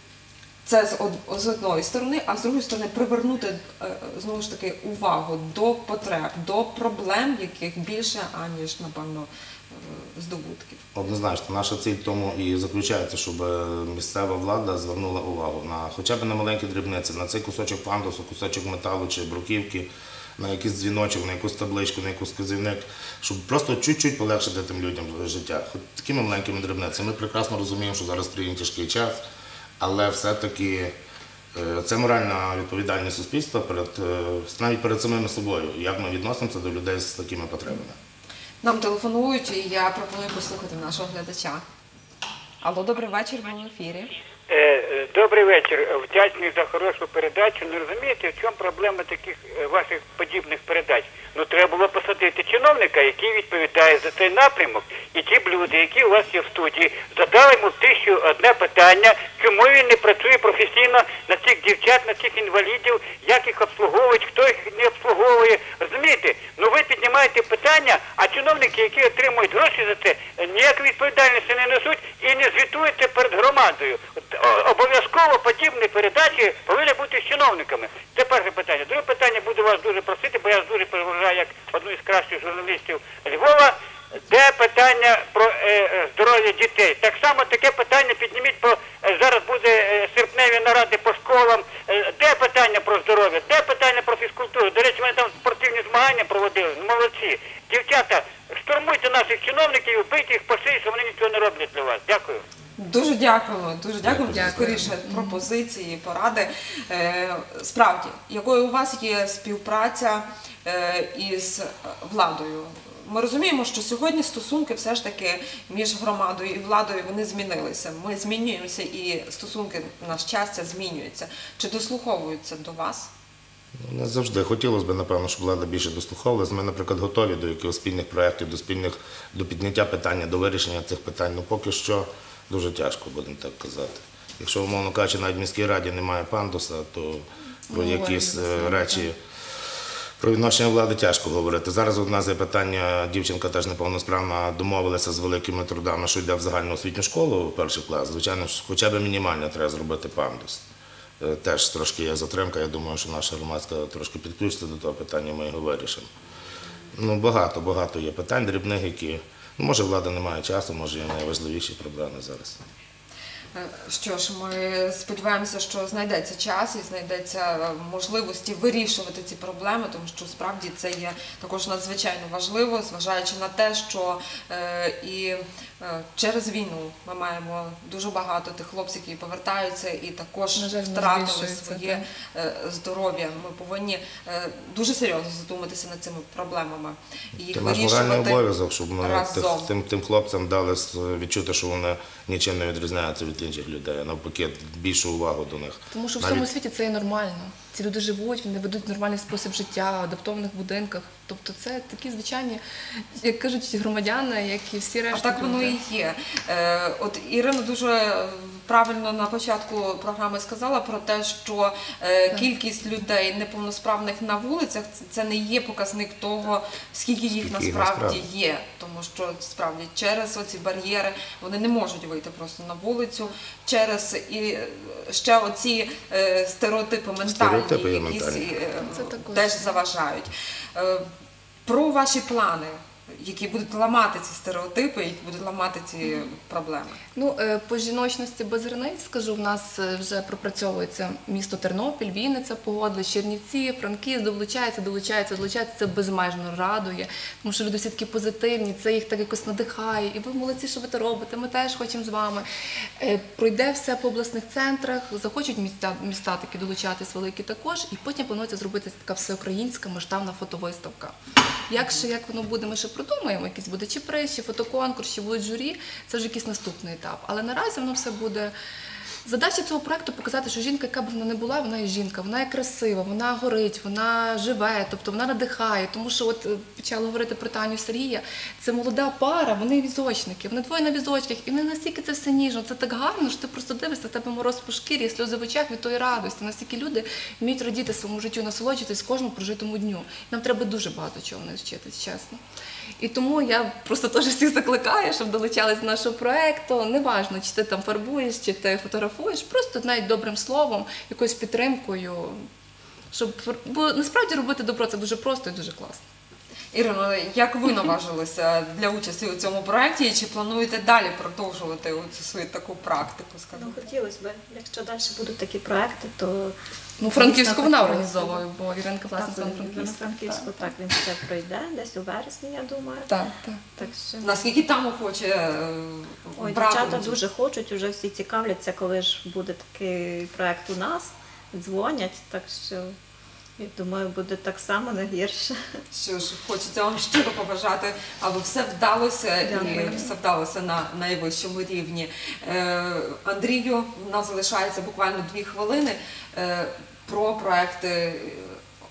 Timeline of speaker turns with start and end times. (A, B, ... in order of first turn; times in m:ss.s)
0:00.6-0:10.8 A
0:11.0-0:29.2 B
0:29.8-0:30.9 B
0:31.5-0:38.0 B
0:38.6-0:41.6 A
0:42.6-0:44.1 A
0:44.5-1:23.8 C
1:24.3-1:42.4 C
1:42.8-2:03.1 A
1:44.0-1:44.9 B
1:44.3-1:45.4 D
2:03.8-2:19.2 B
2:17.7-2:19.1 D
2:20.2-2:30.6 B
2:31.2-2:36.1 B
2:37.0-2:42.6 B
2:43.5-3:09.7 A
3:00.6-3:02.0 D
3:07.5-3:16.5 B
3:15.9-3:22.6 D
3:23.2-3:25.8 D
3:25.1-3:51.0 A
3:37.4-3:38.2 B
3:47.2-3:48.5 B
3:48.8-3:49.8 D
3:51.7-3:57.0 A
3:57.2-4:12.5 D
4:13.0-4:21.2 D
4:21.7-4:28.5 D
4:29.2-4:52.4 D
4:53.0-5:02.4 D
5:03.1-5:06.0 D
5:06.7-5:13.9 A
5:13.6-5:18.4 E
5:17.0-5:20.7 D
5:19.2-5:23.1 E
5:23.1-5:23.6 D
5:23.8-5:24.4 E
5:24.2-5:27.2 A
5:26.4-5:33.0 E
5:33.6-5:35.6 E
5:35.9-5:48.6 A
5:39.4-5:40.1 E